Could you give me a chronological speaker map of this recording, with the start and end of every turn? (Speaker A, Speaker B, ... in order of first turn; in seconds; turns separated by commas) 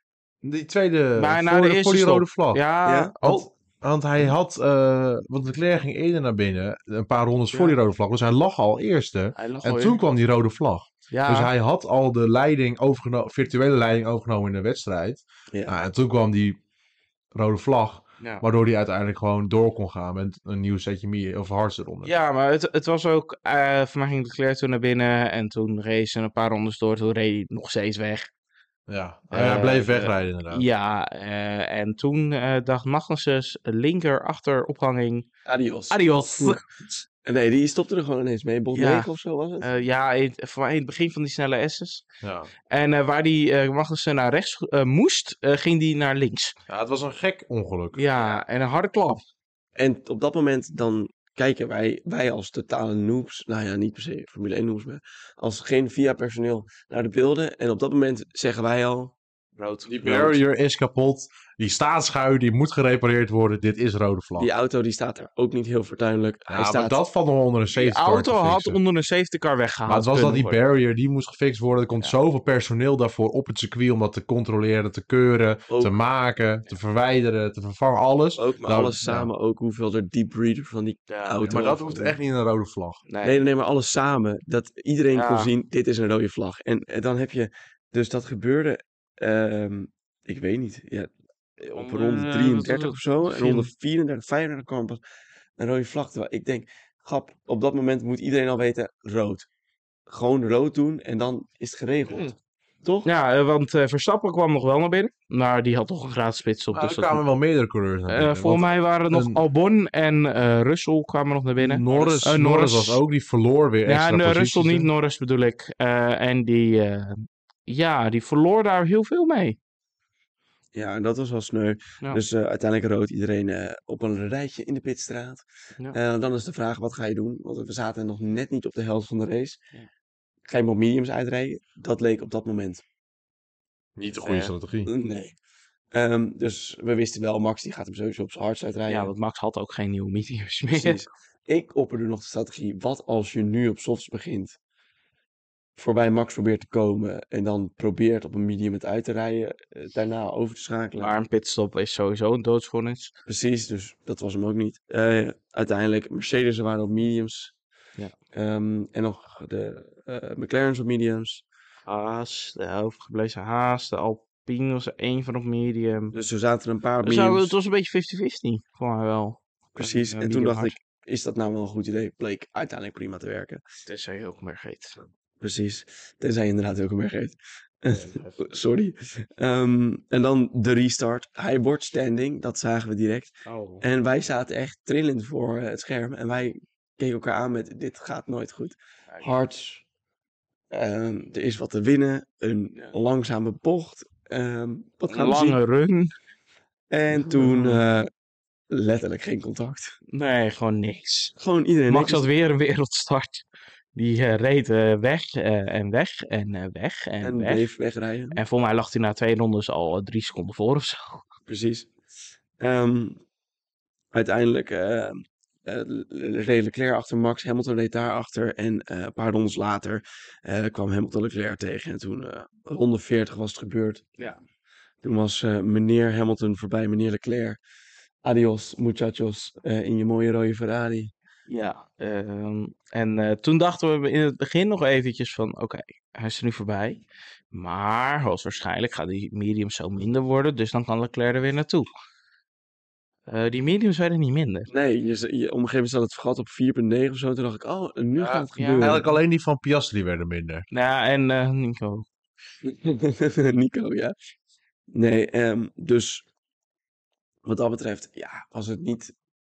Speaker A: 0.4-2.6, Speaker B: 1.2-3.5, Speaker C: 2.9-3.1, Speaker A: 3.2-16.6, Speaker B: 7.5-7.8, Speaker B: 9.4-10.0, Speaker B: 11.1-11.5, Speaker A: 17.3-22.1, Speaker B: 18.2-18.4, Speaker B: 22.0-28.3, Speaker A: 28.9-30.7, Speaker B: 29.3-35.3, Speaker C: 35.5-36.6, Speaker B: 35.9-36.8, Speaker C: 37.2-39.7, Speaker B: 38.7-39.1, Speaker B: 39.6-42.0, Speaker A: 42.2-42.5, Speaker B: 42.7-46.5, Speaker A: 46.7-48.0, Speaker B: 47.9-49.2, Speaker C: 49.8-59.1, Speaker B: 59.6-59.9, Speaker A: 59.9-64.5, Speaker C: 60.0-60.4, Speaker C: 64.4-67.0, Speaker A: 66.5-68.8, Speaker B: 67.7-70.6, Speaker A: 69.9-79.3, Speaker C: 75.7-75.9, Speaker C: 78.4-82.2, Speaker B: 81.1-81.4, Speaker A: 81.4-83.0, Speaker B: 83.1-83.4, Speaker C: 83.2-95.0, Speaker B: 85.1-85.5, Speaker B: 91.8-93.7, Speaker C: 95.6-99.5, Speaker C: 100.1-103.1, Speaker B: 103.0-107.2, Speaker A: 106.7-109.4, Speaker B: 108.1-113.0, Speaker A: 111.6-114.9, Speaker C: 111.9-112.2, Speaker B: 113.9-119.6, Speaker C: 120.7-129.6, Speaker C: 130.5-132.8, Speaker A: 134.0-134.9, Speaker B: 134.2-134.5, Speaker C: 134.8-135.4, Speaker C: 135.9-139.1, Speaker B: 138.9-141.0, Speaker C: 140.7-144.6, Speaker C: 145.8-151.1, Speaker B: 151.0-153.1, Speaker C: 153.3-157.5, Speaker C: 158.3-161.4, Speaker B: 161.9-166.1, Speaker C: 166.1-167.5, Speaker B: 167.0-170.8, Speaker C: 169.8-173.6, Speaker B: 173.9-175.0, Speaker C: 175.4-189.8, Speaker B: 177.9-178.4, Speaker B: 183.5-183.8, Speaker C: 190.7-195.6, Speaker B: 195.1-196.1, Speaker C: 196.9-198.1, Speaker B: 197.1-197.8, Speaker C: 198.7-200.0, Speaker B: 200.1-201.4, Speaker C: 201.4-202.3, Speaker B: 201.9-207.7, Speaker C: 207.2-208.4, Speaker B: 208.3-211.2, Speaker C: 211.5-211.9, Speaker C: 212.6-213.2, Speaker C: 214.1-224.0, Speaker C: 225.0-227.6, Speaker C: 228.2-231.1, Speaker B: 231.5-241.9, Speaker B: 243.3-244.7, Speaker C: 244.7-249.1, Speaker A: 248.2-250.7, Speaker B: 248.6-249.2, Speaker B: 250.7-252.1, Speaker C: 252.6-254.2, Speaker C: 254.9-256.2, Speaker C: 257.4-259.1